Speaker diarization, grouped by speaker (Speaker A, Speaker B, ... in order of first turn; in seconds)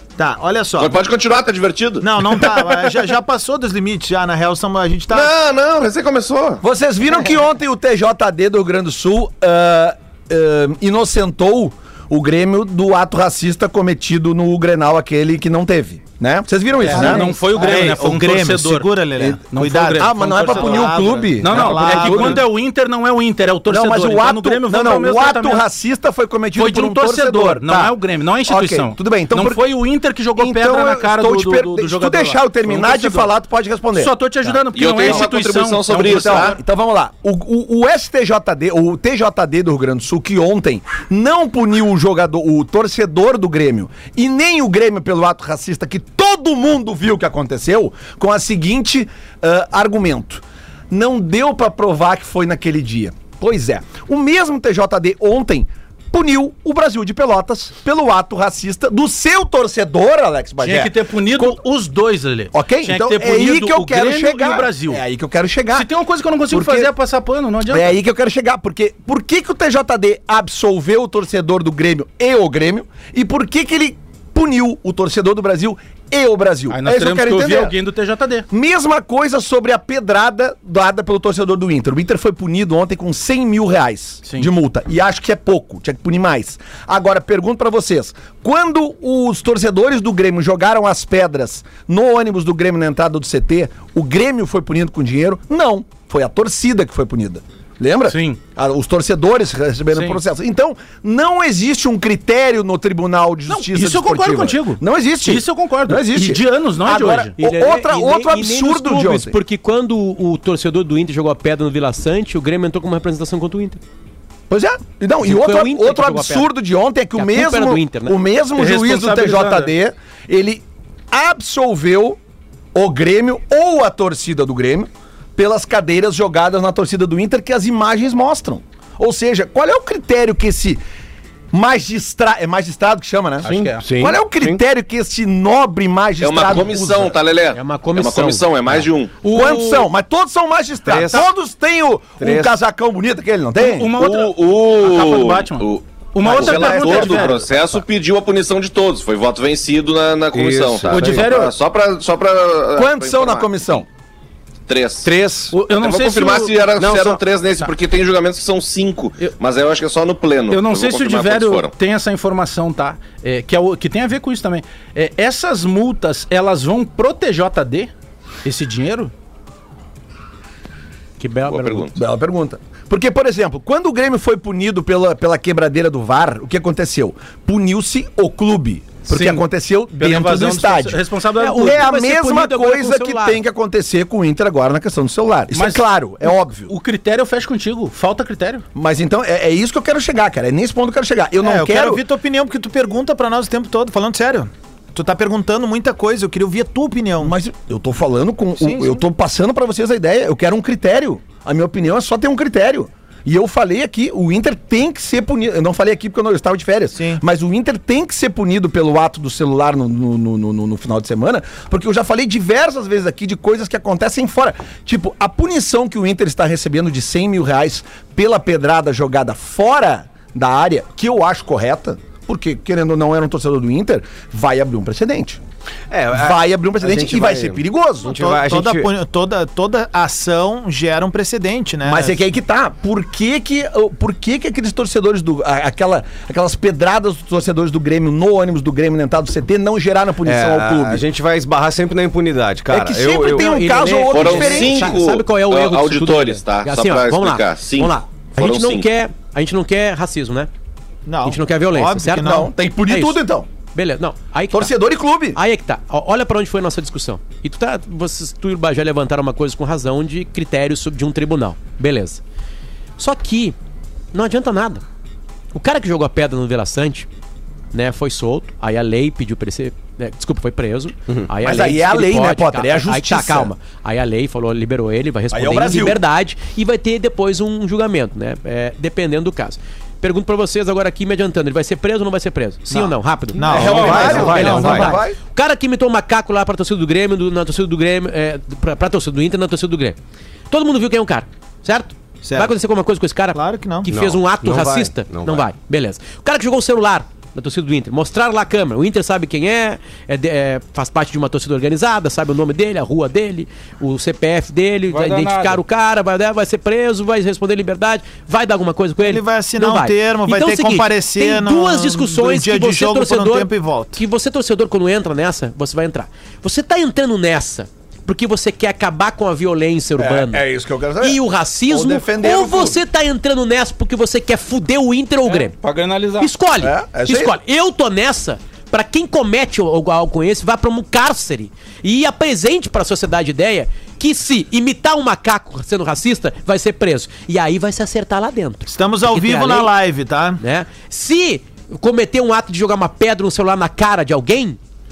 Speaker A: 0.2-1.0, 2.0-5.3, 16.9-22.4, 191.4-197.3, 198.6-199.0, 206.9-207.2, 228.1-232.2, 251.1-252.5, 282.7-285.0, 292.2-292.5, 293.3-293.9, 309.0-314.0, 338.7-340.4
Speaker B: 0.8-2.1, 5.1-6.6, 34.7-36.6, 136.2-139.2, 144.0-153.8, 154.7-155.1, 155.7-161.7, 171.5-171.9, 244.1-248.9
Speaker C: 6.6-17.8, 19.9-22.4, 23.7-27.9, 28.5-29.6, 30.4-35.3, 35.9-61.6, 62.5-65.9, 66.5-66.9, 67.7-77.7, 78.5-109.4, 114.5-122.2, 122.8-130.8, 131.5-137.2, 139.2-144.0, 146.2-147.4, 152.7-153.9, 171.9-186.7, 188.8-192.0, 197.2-225.4, 226.1-228.3, 231.8-241.0, 242.7-245.0, 252.2-253.5, 254.5-255.4, 271.4-273.5, 275.3-276.0, 283.5-285.2, 320.0-322.8, 326.6-327.3
Speaker D: 16.8-18.9, 19.5-25.6, 26.5-33.3, 33.9-36.6, 60.6-65.0, 65.7-68.0, 76.7-78.5, 98.1-98.4, 99.9-100.2, 103.5-107.3, 118.5-119.7, 133.4-133.9, 139.2-139.9, 143.6-147.4, 150.9-151.5, 155.5-156.9, 160.5-167.9, 168.4-169.1, 179.1-179.4, 180.0-181.8, 185.5-188.6, 283.6-284.2, 304.9-305.6, 325.3-326.3
Speaker E: 107.4-113.8, 115.2-116.5, 117.1-118.2, 137.5-138.5, 171.2-171.9, 181.4-183.4, 243.3-250.5, 251.2-253.2, 253.7-254.7, 255.3-262.2, 263.0-263.6, 264.1-264.8, 265.5-267.1, 267.7-290.0, 290.5-320.4, 321.0-325.5, 326.2-339.7, 340.4-344.6
Speaker F: 133.5-134.6, 140.9-141.2, 142.2-142.5, 150.3-151.4, 155.0-155.6, 156.8-157.2, 225.9-228.9, 240.2-243.5, 283.5-285.0, 293.9-295.5